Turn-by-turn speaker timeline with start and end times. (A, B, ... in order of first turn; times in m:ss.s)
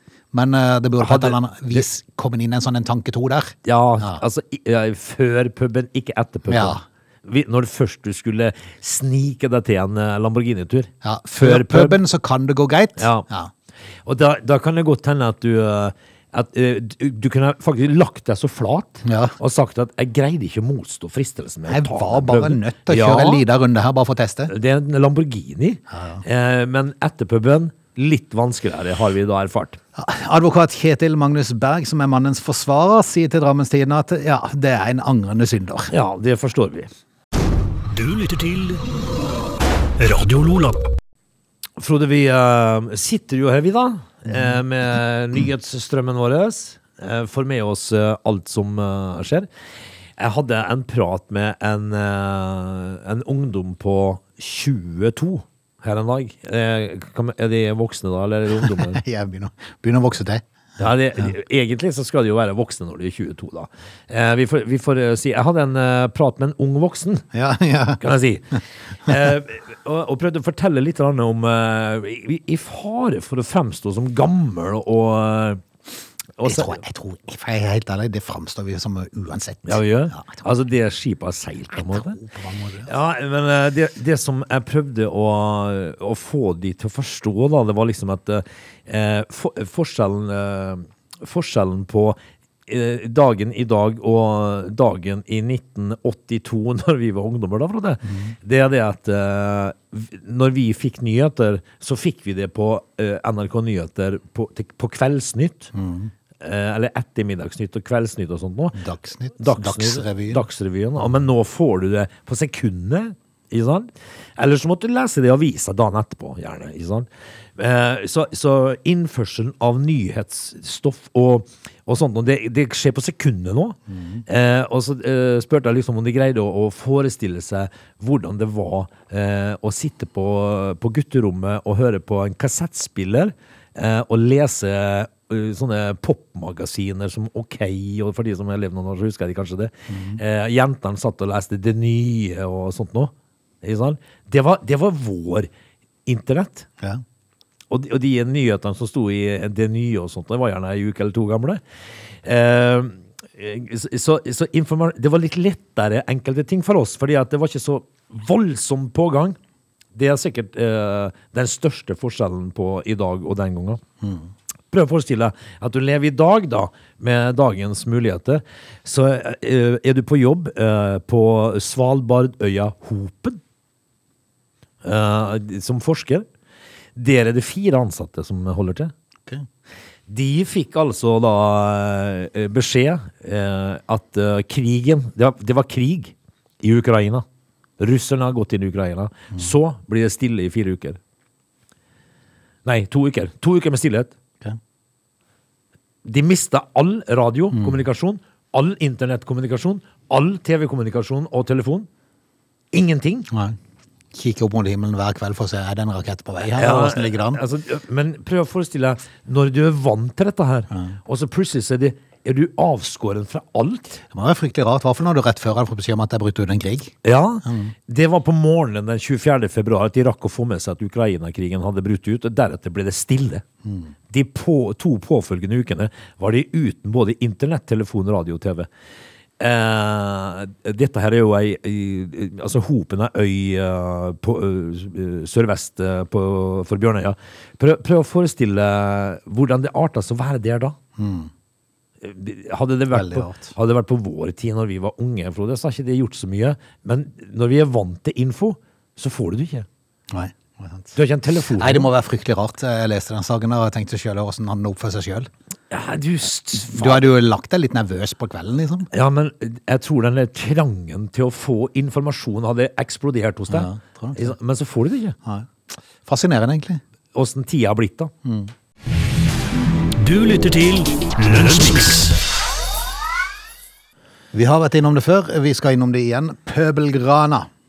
0:00.3-0:04.2 A
0:01.0-0:01.8 B
0:03.6-0:12.0 B
0:06.5-0:06.8 A
0:11.0-0:13.5 A
0:13.0-0:13.2 B
0:14.0-0:23.4 B
0:19.0-0:19.3 A
0:21.7-0:24.5 A
0:24.5-0:29.8 B
0:25.9-0:26.2 A
0:30.0-0:35.9 A
0:35.9-0:36.9 B
0:37.9-0:38.8 C
0:40.0-0:40.8 C
0:41.8-0:49.5 B
0:50.2-0:59.0 B
0:58.7-1:00.4 A
1:00.8-1:07.2 B
1:07.3-1:08.0 A
1:08.0-1:15.6 B
1:16.4-1:16.8 B
1:16.4-1:20.4 A
1:19.6-1:22.2 B
1:21.8-1:22.9 A
1:22.8-1:45.7 B
1:38.1-1:38.3 A
1:45.7-1:46.1 A
1:46.4-1:48.8 B
1:48.7-1:50.4 A
1:49.4-2:25.5 B
2:03.9-2:04.2 A
2:19.9-2:20.2 A
2:26.0-2:26.7 B
2:27.7-2:31.6 B
2:32.2-2:39.4 B
2:39.9-2:43.8 B
2:44.7-2:53.4 B
2:54.8-2:56.2 B
2:57.0-2:58.9 B
3:00.1-3:07.2 B
3:07.8-3:11.0 B
3:12.6-3:14.1 B
3:16.0-3:21.9 B
3:22.7-3:23.3 B
3:23.3-3:23.6 A
3:24.1-3:27.4 A
3:26.5-3:34.0 B
3:34.1-3:37.7 A
3:37.0-3:43.4 B
3:43.6-3:43.9 A
3:44.1-3:48.7 B
3:49.4-4:00.8 B
4:01.0-4:01.3 A
4:02.0-4:09.7 B
4:02.9-4:03.5 A
4:10.1-4:11.0 A
4:11.0-4:11.9 B
4:11.6-4:15.3 A
4:15.7-4:17.1 B
4:16.5-4:18.9 A
4:18.9-4:25.1 B
4:23.5-4:24.3 A
4:26.0-4:26.8 A
4:27.1-4:28.1 B
4:28.2-4:28.5 A
4:30.0-4:32.2 C
4:34.3-4:37.5 A